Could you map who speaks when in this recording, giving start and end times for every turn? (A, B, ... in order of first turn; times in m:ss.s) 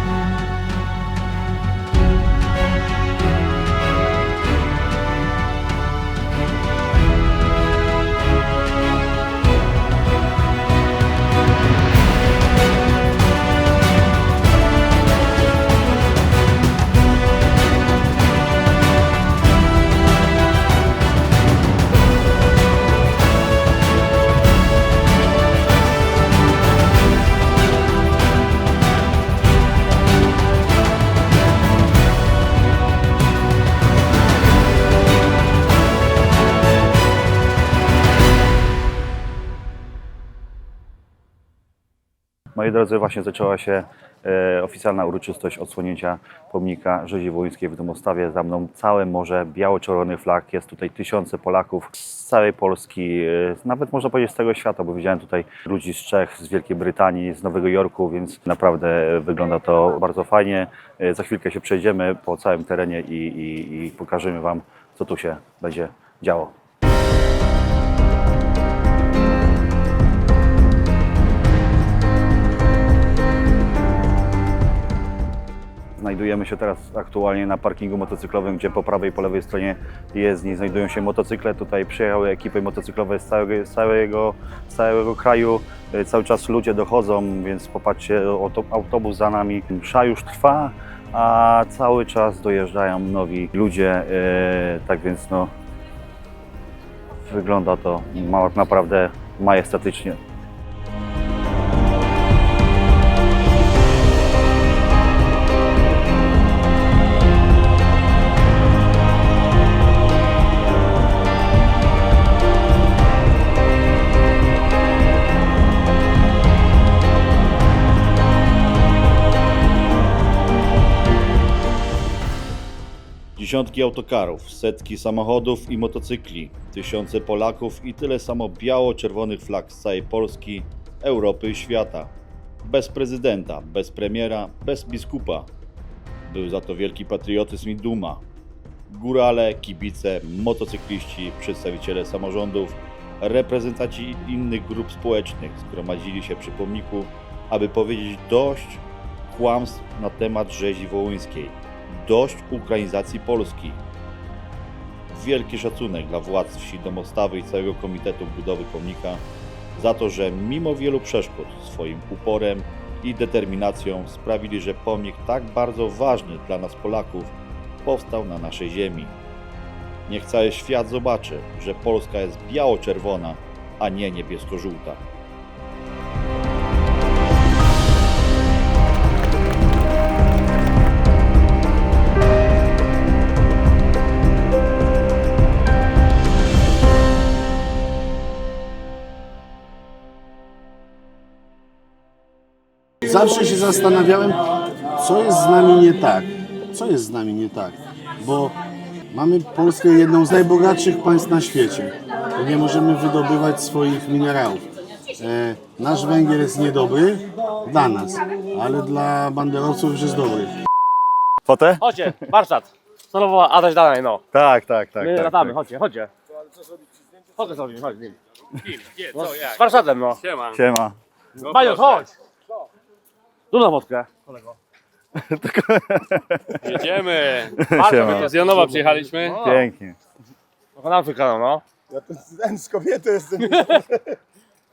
0:42.6-1:06.5 A
1:16.0-1:35.5 A
1:37.2-1:40.2 A
2:03.4-2:12.1 A
2:12.6-2:15.5 A
2:16.3-2:18.2 A
2:18.9-2:33.8 A
2:35.1-2:39.2 A
2:39.8-2:49.2 A
2:50.1-2:55.0 A
3:13.0-3:18.6 B
3:19.1-3:30.6 B
3:31.4-3:32.2 A
3:31.8-3:34.2 C
3:34.3-3:35.6 A
3:35.0-3:36.1 C
3:37.4-3:38.2 C
3:38.8-3:39.5 D
3:39.1-3:40.2 C
3:40.2-3:40.6 D
3:40.5-3:41.0 A
3:41.4-3:42.2 C
3:41.5-3:41.9 D
3:43.5-3:44.3 C
3:45.2-3:46.8 A
3:46.6-3:49.5 D
3:47.5-3:48.3 A
3:47.6-3:49.6 C
3:49.4-3:50.0 A
3:50.8-3:51.6 C
3:51.9-3:54.0 E
3:53.5-3:53.8 C